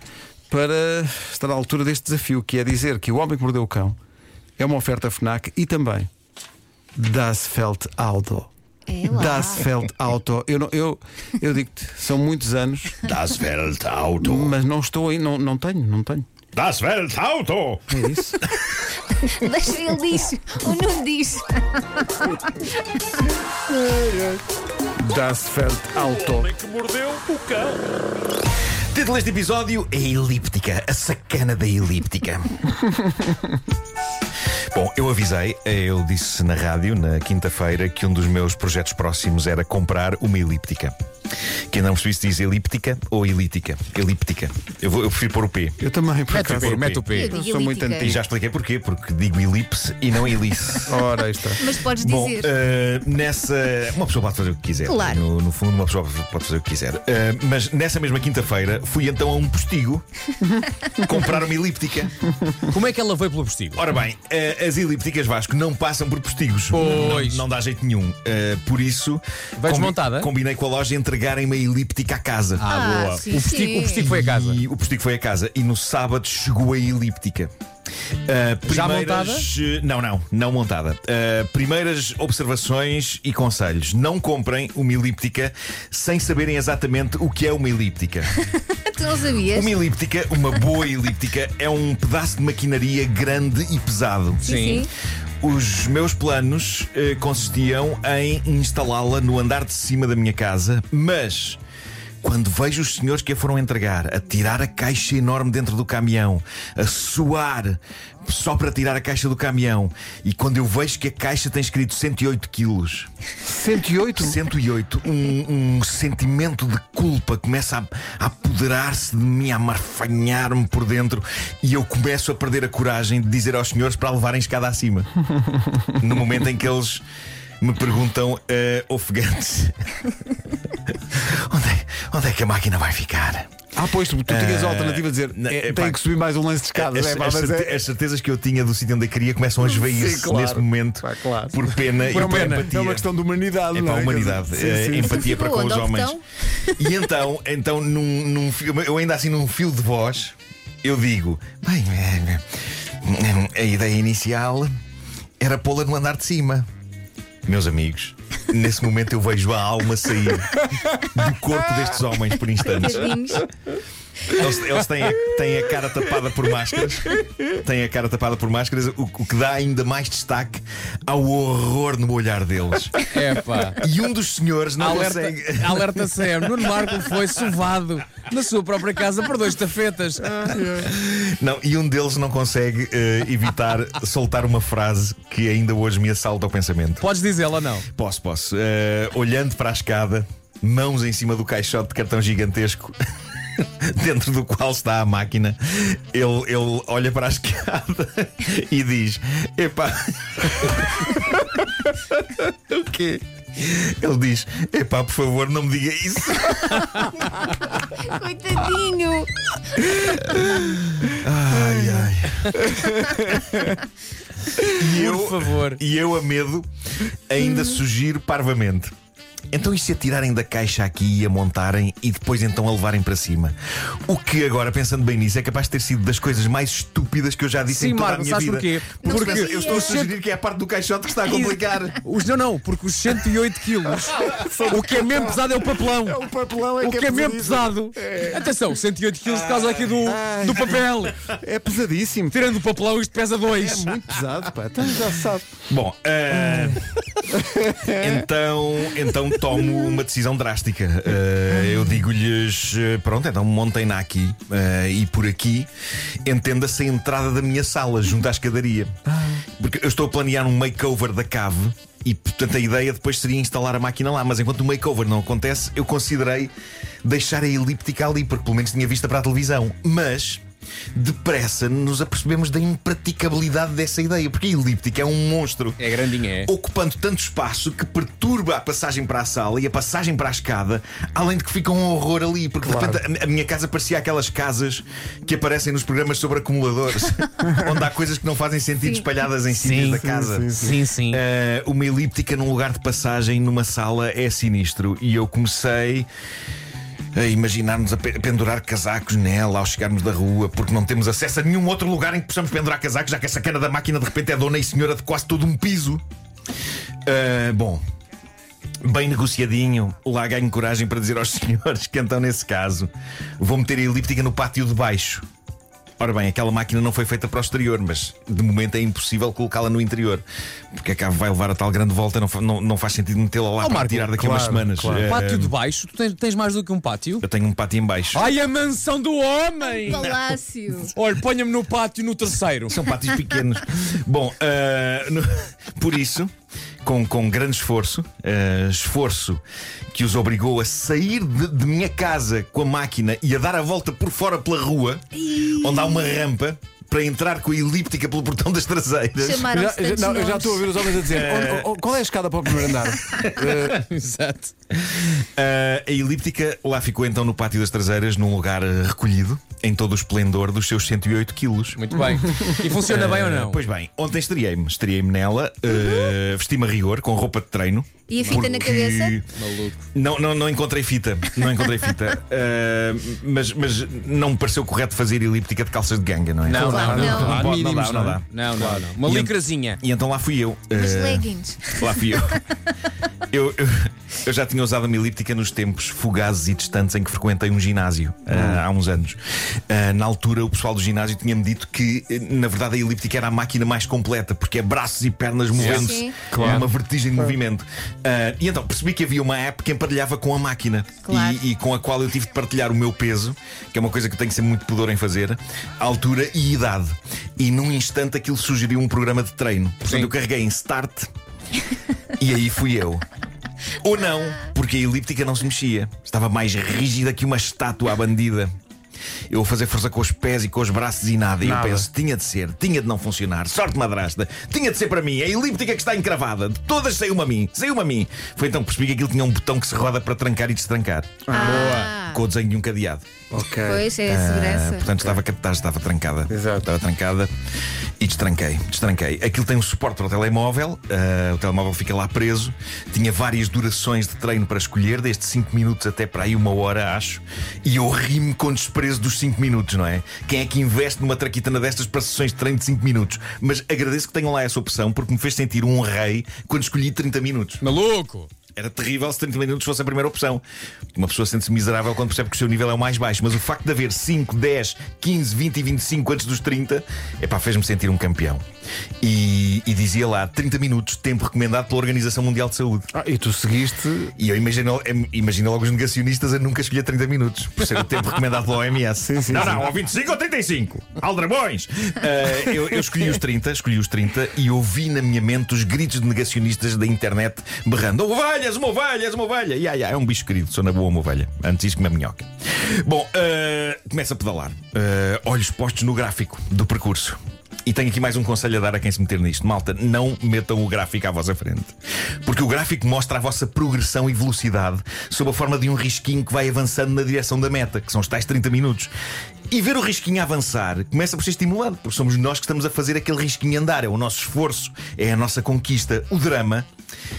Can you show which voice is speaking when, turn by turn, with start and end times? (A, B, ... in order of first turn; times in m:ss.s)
0:00.5-0:04.0 A
0:04.6-0:06.1 A
0:07.0-0:08.5 A
0:08.9-0:09.6 B
0:09.0-0:13.0 A
0:13.0-0:14.6 C
0:14.2-0:16.3 A
0:16.6-0:18.9 C
0:17.9-0:18.4 A
0:19.2-0:22.6 B
0:25.0-0:26.5 A
0:28.9-0:32.6 C
0:34.7-0:40.9 C
0:41.7-0:45.8 C
0:45.8-0:48.2 A
0:46.3-0:47.4 D
0:47.1-0:48.1 B
0:48.0-0:51.0 C
0:50.9-0:51.6 A
0:51.6-0:52.6 B
0:51.9-1:00.0 C
0:54.9-0:55.2 B
1:01.0-1:02.2 C
1:02.7-1:03.8 D
1:03.8-1:12.7 C
1:06.7-1:07.4 D
1:09.6-1:10.3 D
1:12.6-1:14.6 D
1:12.6-1:14.0 B
1:13.3-1:17.5 C
1:18.3-1:28.3 C
1:18.6-1:19.5 D
1:28.7-1:29.8 B
1:29.5-1:34.7 C
1:34.4-1:34.9 B
1:34.4-1:34.9 D
1:35.4-1:41.6 C
1:42.2-1:53.1 C
1:53.5-1:54.4 A
1:54.2-2:05.1 C
2:05.5-2:05.8 A
2:06.0-2:07.0 C
2:07.6-2:09.8 C
2:10.9-2:13.5 C
2:13.8-2:17.8 A
2:14.3-2:16.0 C
2:16.8-2:23.1 C
2:19.6-2:25.3 A
2:22.1-2:22.7 D
2:23.7-2:26.2 C
2:25.0-2:26.8 B
2:26.8-2:32.4 C
2:33.0-2:34.7 C
2:35.4-2:36.7 C
2:37.5-2:43.2 C
2:42.6-2:43.5 B
2:44.3-2:53.1 C
2:53.1-2:53.8 D
2:53.8-2:56.1 C
2:54.8-3:00.7 D
3:00.7-3:07.1 C
3:07.0-3:07.9 D
3:07.9-3:13.0 C
3:13.6-3:27.1 C
3:27.8-3:29.3 B
3:29.9-3:32.6 C
3:32.7-3:33.8 A
3:34.7-3:38.9 C
3:34.8-3:35.8 D
3:39.5-3:43.6 C
3:44.1-3:52.0 C
3:47.7-3:50.1 D
3:49.0-3:50.0 B
3:51.2-3:56.3 D
3:54.2-3:55.4 A
3:56.0-3:58.4 A
3:56.8-4:01.2 D
4:00.0-4:02.4 A
4:02.3-4:04.2 D
4:03.5-4:05.5 A
4:05.7-4:07.0 C
4:06.3-4:08.2 A
4:07.9-4:15.7 C
4:16.3-4:18.9 C
4:19.1-4:19.4 A
4:19.6-4:26.5 C
4:27.0-4:30.4 C
4:30.9-4:35.9 C
4:35.8-4:36.5 D
4:36.4-4:56.1 C
4:42.6-4:43.0 A
4:49.5-4:51.2 D
4:49.9-4:50.8 A
4:57.1-5:06.0 C
5:07.1-5:07.8 C
5:08.8-5:15.2 C
5:16.0-5:25.6 C
5:23.6-5:24.1 D
5:24.2-5:25.1 A
5:25.0-5:27.2 D
5:27.2-5:28.3 C
5:28.1-5:30.2 D
5:29.6-5:30.9 B
5:29.9-5:30.2 C
5:30.9-5:32.8 D
5:32.7-5:36.3 C
5:36.8-5:49.5 C
5:45.2-5:46.2 B
5:49.2-5:50.8 B
5:49.5-5:53.8 A
5:50.9-5:51.7 C
5:53.4-5:54.5 D
5:54.7-6:01.8 C
6:01.8-6:03.6 D
6:02.7-6:09.3 C
6:08.1-6:09.2 B
6:08.2-6:08.6 D
6:09.3-6:09.8 D
6:09.9-6:22.4 C
6:16.4-6:17.4 D
6:16.5-6:18.8 A
6:16.6-6:17.5 B
6:18.3-6:19.8 D
6:20.7-6:22.1 B
6:23.3-6:29.2 C
6:28.3-6:28.6 A
6:29.7-6:51.1 C
6:35.5-6:35.9 D
6:35.6-6:36.2 B
6:36.3-6:37.3 A
6:41.0-6:41.4 B
6:49.8-6:50.1 D
6:52.2-6:53.0 C
6:53.8-6:58.5 C
6:59.3-7:13.1 C
7:01.4-7:01.9 A
7:11.3-7:11.9 A
7:11.3-7:12.2 B
7:13.3-7:13.9 A
7:13.6-7:14.9 B
7:14.0-7:17.3 C
7:16.3-7:16.7 A
7:18.0-7:37.6 C
7:37.6-7:38.3 D
7:38.6-7:40.4 C
7:41.0-7:48.4 C
7:49.0-7:52.9 C
7:52.9-7:54.1 A
7:54.2-8:28.9 C
7:59.0-7:59.7 A
8:29.5-8:36.7 C